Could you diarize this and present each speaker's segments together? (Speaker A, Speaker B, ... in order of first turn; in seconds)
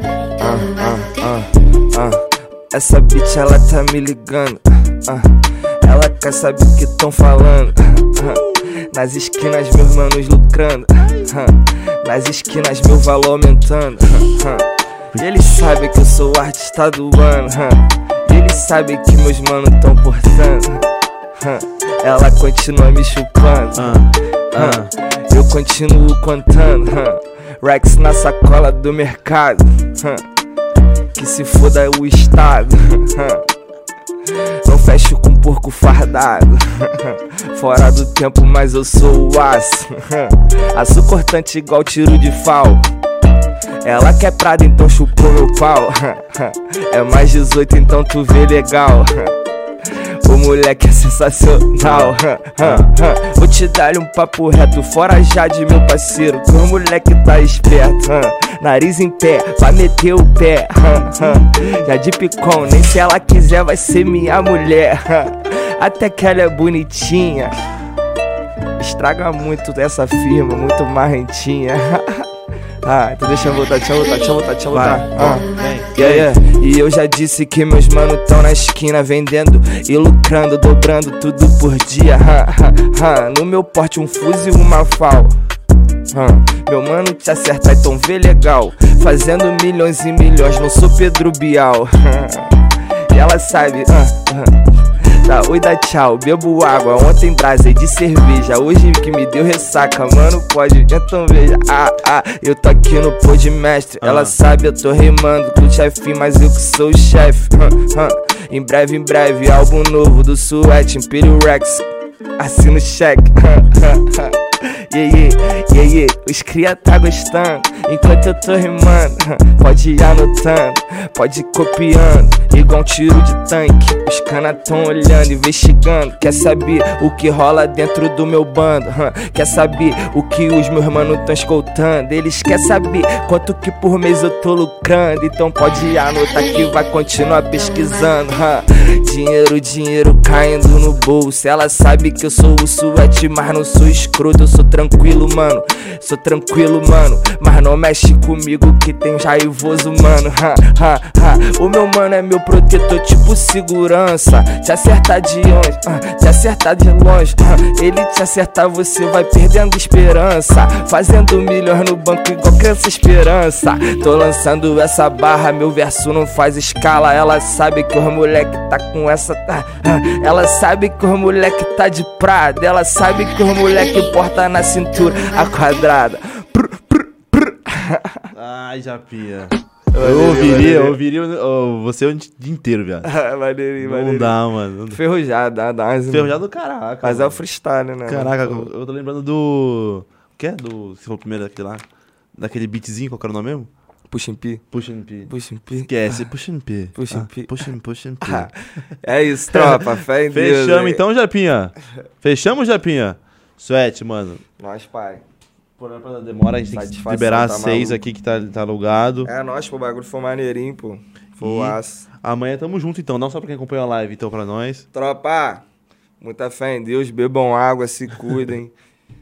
Speaker A: 0.4-20.9, 21.4-24.0, 24.5-30.3, 31.1-33.5, 34.3-42.9, 43.8-67.6, 68.8-72.3, 72.8-85.4, 86.1-111.9, 112.4-178.3, 179.9-181.0, 183.0-184.3, 184.9-186.4, 187.0-188.7, 194.1-194.7, 195.3-196.2, 196.9-197.7, 198.2-201.0, 204.6-205.2, 206.7-208.0, 209.2-212.1, 214.9-215.6, 216.2-218.7
Speaker B: 23.8-24.9, 51.8-52.9, 61.2-61.9, 74.7-76.3, 104.0-104.3, 178.3-183.1, 183.8-185.0, 186.1-187.4, 188.1-191.8, 192.4-193.7, 194.7-195.3, 195.8-198.5, 199.5-204.4, 205.8-209.3, 211.4-214.9